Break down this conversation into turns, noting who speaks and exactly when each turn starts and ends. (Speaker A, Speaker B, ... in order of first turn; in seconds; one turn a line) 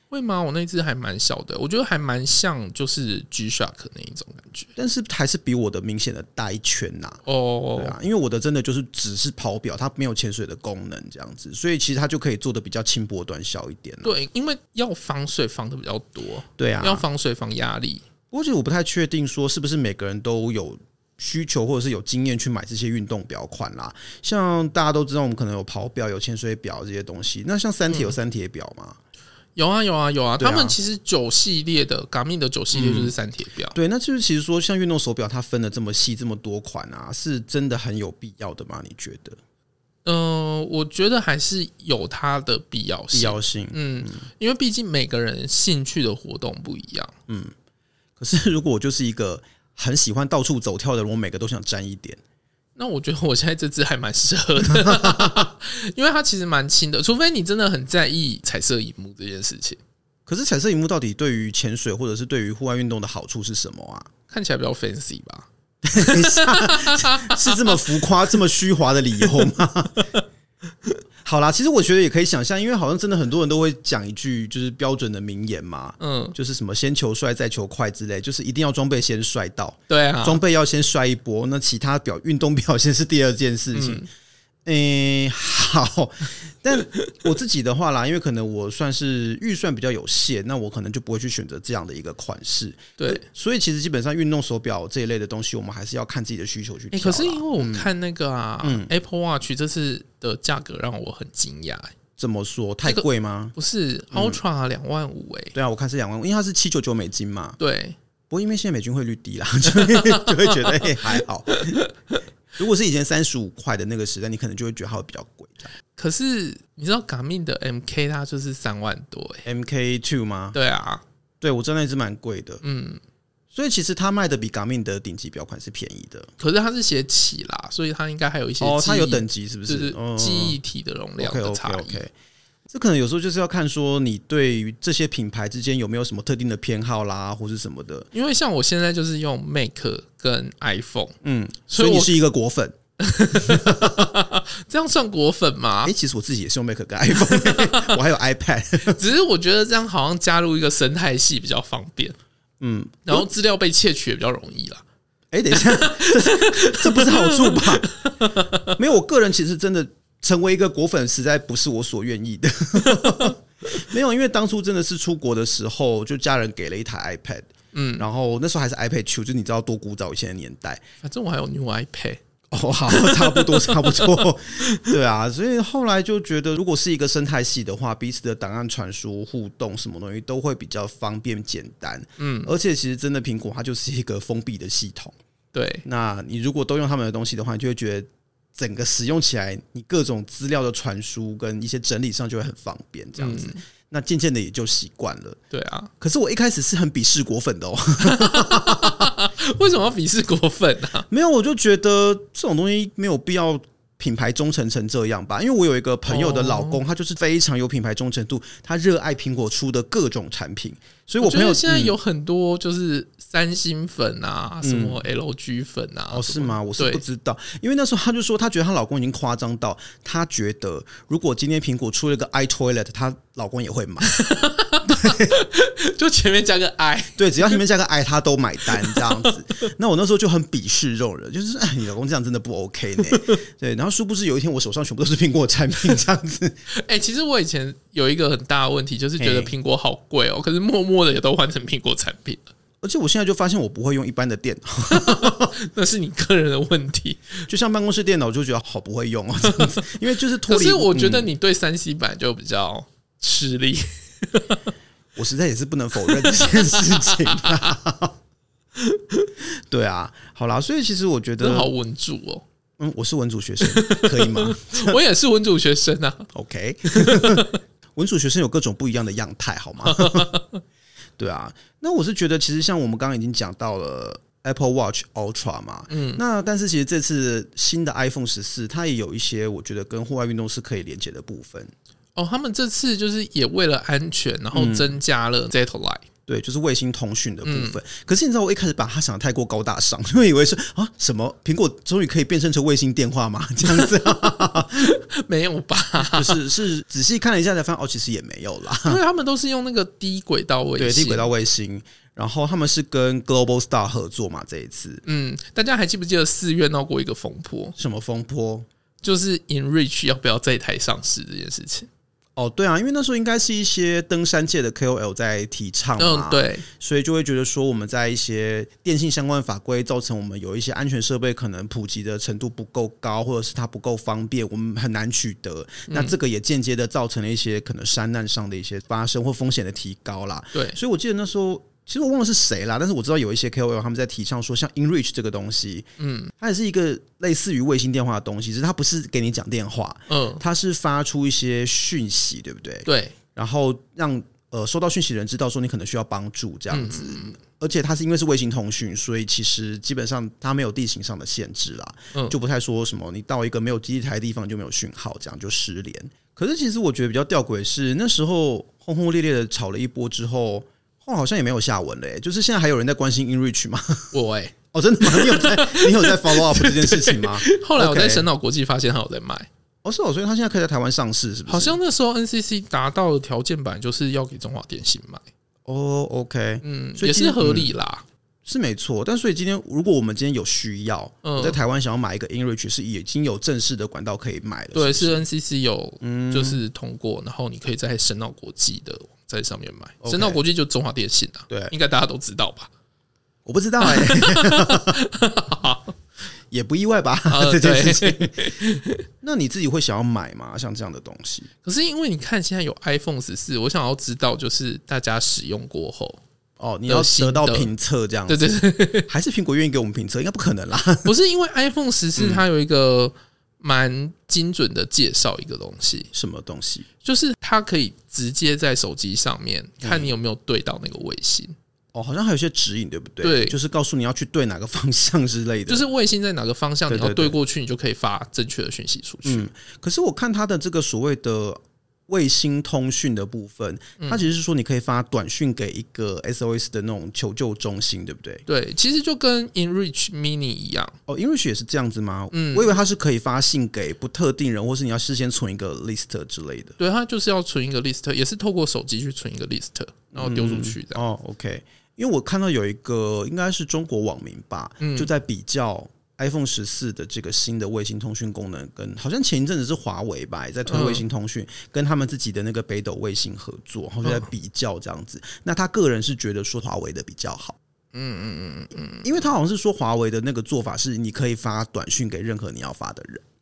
Speaker A: 0.1-4.7
Speaker B: 4.8-7.2
Speaker A: 7.2-8.0
Speaker B: 7.8-14.1
Speaker A: 14.0-18.0
Speaker B: 16.6-17.1
Speaker B: 18.3-29.0
Speaker A: 27.9-28.1
Speaker A: 29.6-33.8
Speaker B: 30.4-30.8
Speaker B: 32.7-33.1
Speaker B: 33.7-39.4
Speaker A: 40.0-47.1
Speaker B: 43.1-44.2
Speaker B: 47.3-47.5
Speaker B: 48.2-52.2
Speaker A: 52.8-59.8
Speaker B: 54.7-55.5
Speaker B: 60.3-64.1
Speaker A: 64.3-68.0
Speaker B: 65.8-70.1
Speaker A: 70.0-70.2
Speaker B: 71.2-84.1
Speaker A: 76.0-76.4
Speaker A: 79.9-80.4
Speaker A: 83.7-84.1
Speaker B: 84.6-97.9
Speaker A: 93.0-93.2
Speaker A: 96.9-101.9
Speaker B: 98.6-98.9
Speaker B: 102.2-103.5
Speaker A: 102.8-105.5
Speaker B: 104.1-104.4
Speaker B: 105.5-107.6
Speaker A: 107.6-108.0
Speaker B: 108.3-111.8
Speaker A: 109.7-112.2
Speaker B: 112.6-115.7
Speaker A: 115.9-119.5
Speaker B: 119.4-120.6
Speaker A: 120.5-121.0
Speaker B: 121.4-122.6
Speaker A: 122.6-123.0
Speaker B: 123.5-126.3
Speaker A: 126.4-132.0
Speaker B: 128.6-130.6
Speaker B: 131.2-132.1
Speaker B: 132.7-138.1
Speaker A: 138.1-141.2
Speaker B: 141.2-142.8
Speaker A: 141.7-142.2
Speaker A: 143.0-145.9
Speaker B: 143.3-144.1
Speaker B: 145.8-149.0
Speaker A: 147.1-148.0
Speaker A: 148.8-152.2
Speaker B: 152.6-153.3
Speaker A: 153.1-154.8
Speaker B: 155.3-157.9
Speaker A: 155.5-158.8
Speaker B: 158.7-170.8
Speaker A: 162.8-163.3
Speaker A: 167.7-168.1
Speaker A: 171.0-172.2
Speaker B: 172.5-185.2
Speaker A: 172.9-174.9
Speaker A: 182.2-182.5
Speaker A: 185.5-185.8
Speaker B: 185.8-195.4
Speaker A: 193.2-193.6
Speaker A: 195.5-195.9
Speaker B: 196.0-199.1
Speaker A: 198.0-201.1
Speaker B: 201.1-211.9
Speaker A: 206.1-206.8
Speaker A: 211.2-217.0
Speaker B: 214.6-215.0
Speaker B: 216.1-224.3
Speaker A: 224.0-227.6
Speaker B: 224.8-225.4
Speaker B: 227.2-236.6
Speaker A: 228.8-229.3
Speaker A: 233.1-233.4
Speaker A: 236.7-242.5
Speaker B: 239.2-239.5
Speaker B: 242.8-245.5
Speaker A: 244.9-247.5
Speaker B: 247.5-251.3
Speaker A: 249.5-249.9
Speaker A: 250.4-254.7
Speaker B: 255.2-258.2
Speaker A: 256.1-257.7
Speaker A: 258.8-259.3
Speaker B: 259.4-261.7
Speaker A: 261.4-262.4
Speaker B: 262.8-265.0
Speaker A: 263.6-266.3
Speaker B: 266.3-270.3
Speaker A: 266.9-267.6
Speaker A: 269.8-270.6
Speaker B: 271.2-281.7
Speaker A: 275.9-276.2
Speaker A: 282.2-286.1
Speaker B: 284.5-285.0
Speaker B: 286.3-294.9
Speaker A: 287.4-287.8
Speaker A: 293.7-296.4
Speaker B: 296.0-299.0
Speaker A: 298.8-301.3
Speaker B: 300.8-305.0
Speaker A: 305.1-307.8
Speaker B: 307.8-308.7
Speaker A: 309.0-311.9
Speaker B: 312.4-364.1
Speaker A: 316.0-316.7
Speaker A: 325.9-326.2
Speaker A: 336.0-336.3
Speaker A: 340.1-340.4
Speaker A: 342.9-343.1
Speaker A: 346.7-347.4
Speaker A: 364.1-369.5
Speaker B: 364.7-368.3
Speaker B: 369.8-371.8
Speaker A: 371.5-375.2
Speaker B: 375.7-377.7
Speaker A: 376.6-378.1
Speaker B: 378.4-385.2
Speaker A: 381.2-381.6
Speaker A: 384.7-392.7
Speaker B: 386.0-386.6
Speaker B: 390.0-390.4
Speaker B: 391.5-391.7
Speaker B: 393.4-395.0
Speaker A: 393.8-396.0
Speaker B: 396.5-398.6
Speaker A: 397.3-399.1
Speaker B: 399.2-401.5
Speaker A: 401.6-406.2
Speaker B: 406.6-408.5
Speaker A: 406.9-407.7
Speaker A: 408.3-409.1
Speaker B: 409.1-411.1
Speaker A: 411.0-416.1
Speaker B: 412.2-412.4
Speaker B: 416.1-416.9
Speaker A: 417.0-421.6
Speaker B: 419.8-420.1
Speaker B: 421.9-425.8
Speaker A: 423.2-423.6
Speaker A: 425.7-429.4
Speaker B: 426.9-427.4
Speaker B: 429.2-438.4
Speaker A: 438.5-440.9
Speaker B: 441.1-446.8
Speaker A: 442.3-442.8
Speaker A: 446.8-451.0
Speaker B: 450.1-467.6
Speaker A: 454.8-455.1
Speaker A: 460.7-461.0
Speaker A: 467.9-469.3
Speaker B: 469.0-473.2